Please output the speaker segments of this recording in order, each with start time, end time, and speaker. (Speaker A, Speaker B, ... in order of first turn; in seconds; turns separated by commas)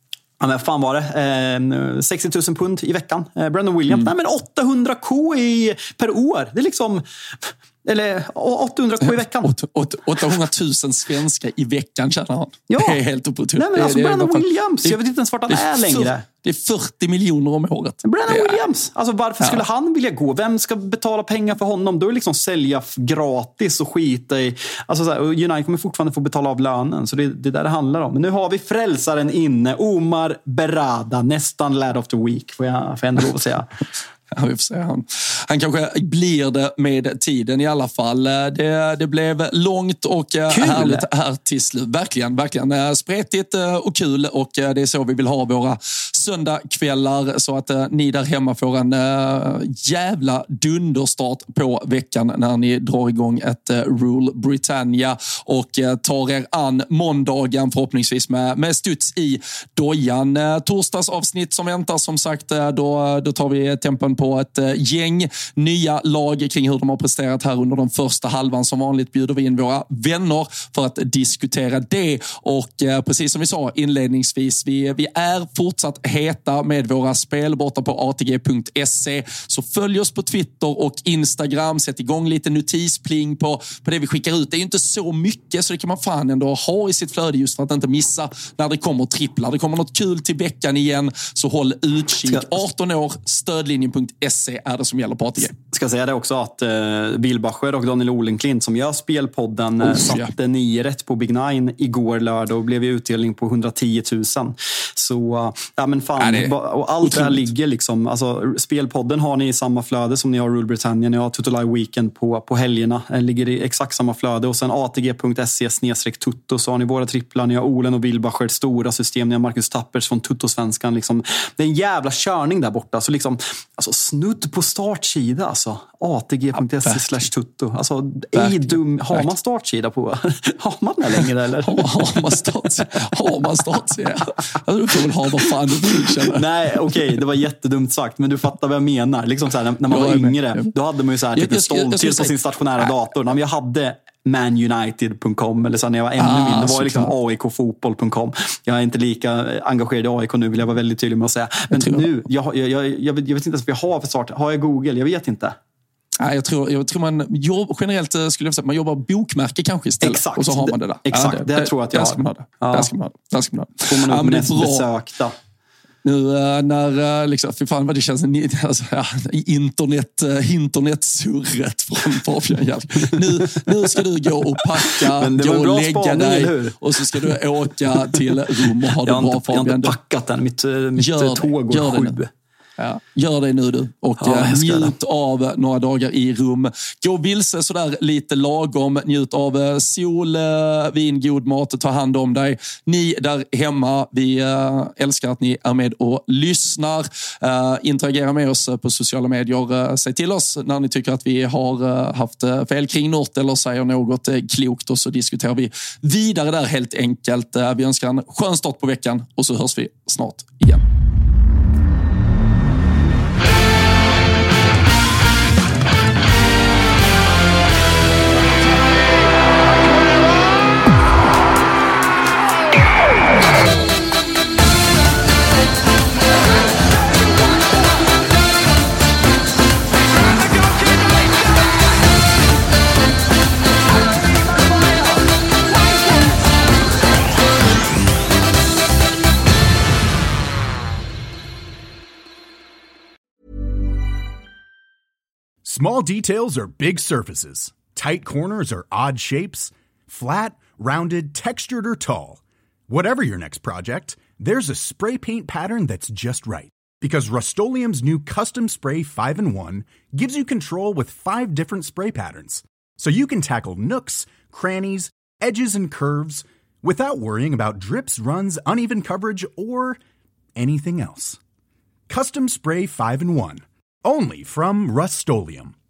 Speaker A: 0.4-9.6, Speaker B: 9.4-15.0, Speaker A: 12.7-13.0, Speaker A: 13.5-16.2, Speaker B: 15.5-18.6, Speaker A: 18.0-33.7, Speaker B: 34.3-95.5, Speaker A: 40.5-41.1, Speaker A: 92.2-92.6, Speaker A: 95.5-132.4, Speaker B: 99.8-100.3, Speaker B: 106.2-107.5, Speaker B: 128.3-129.3, Speaker B: 131.6-136.4, Speaker A: 136.2-155.6, Speaker B: 139.9-140.7, Speaker B: 141.3-142.9, Speaker B: 146.2-147.1, Speaker B: 151.7-152.1, Speaker B: 156.2-164.9, Speaker A: 160.0-162.9, Speaker A: 163.8-165.3, Speaker B: 166.0-179.9, Speaker A: 173.2-173.7, Speaker A: 174.6-177.4, Speaker A: 177.9-178.4, Speaker A: 179.0-182.3, Speaker B: 181.0-182.2, Speaker B: 182.8-210.8, Speaker A: 184.2-184.9, Speaker C: 245.6-270.0, Speaker C: 270.6-271.4, Speaker C: 272.1-275.7